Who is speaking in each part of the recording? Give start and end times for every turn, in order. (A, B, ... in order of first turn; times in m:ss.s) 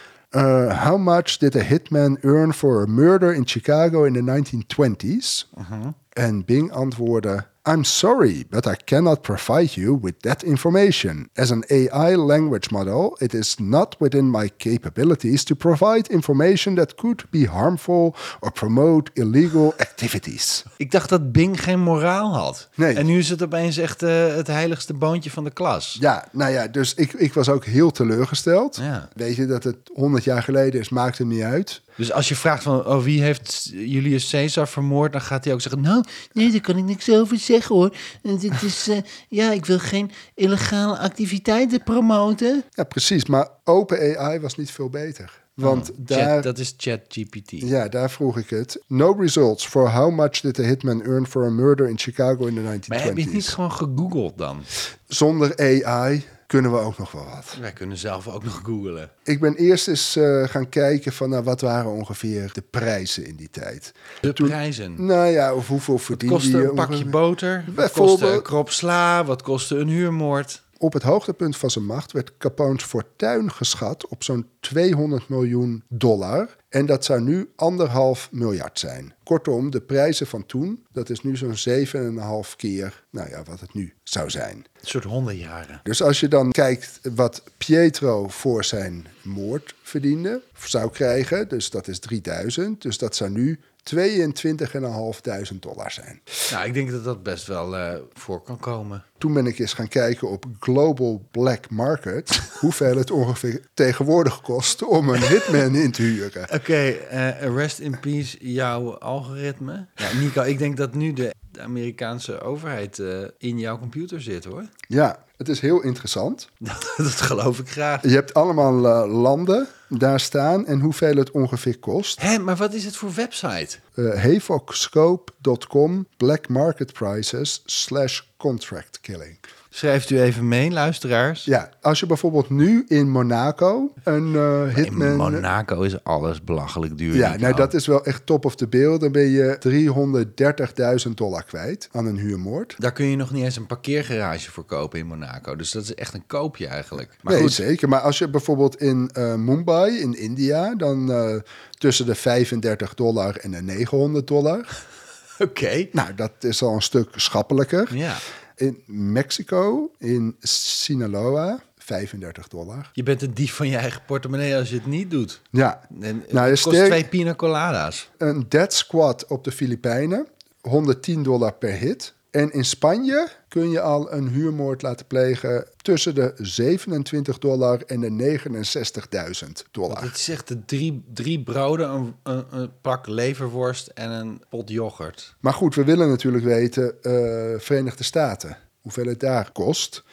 0:00.3-0:05.5 A
0:05.6-0:05.9 B
0:06.1-0:20.6 A
0:20.8-0:26.0 B
0:22.8-0:23.0 A
0:26.0-0:31.8 A
0:28.8-0:29.1 B
0:32.0-0:42.6 B
0:42.8-0:46.5 A
0:45.6-0:47.7 B
0:47.6-0:53.6 A
0:52.9-0:54.7 B
0:55.1-0:57.6 A
0:57.5-0:59.1 B
0:59.2-1:08.5 A
1:04.2-1:05.0 B
1:06.1-1:10.6 B
1:10.8-1:24.6 A
1:24.8-1:25.8 B
1:25.8-1:36.2 A
1:36.5-1:39.0 B
1:39.2-1:46.5 A
1:46.5-1:54.7 B
1:54.9-1:56.5 A
1:56.6-1:58.0 B
1:58.0-2:02.2 A
2:02.2-2:03.8 B
2:04.0-2:09.4 A
2:09.7-2:11.5 B
2:11.4-2:15.4 A
2:14.7-2:17.7 B
2:17.1-2:22.8 A
2:22.8-2:27.6 B
2:27.2-2:34.7 A
2:35.4-2:35.9 B
2:35.9-2:38.0 A
2:37.9-2:38.2 B
2:38.6-2:42.9 A
2:43.0-2:48.1 B
2:45.5-2:47.1 A
2:48.2-3:00.1 A
2:59.9-3:05.3 B
3:05.4-3:10.0 A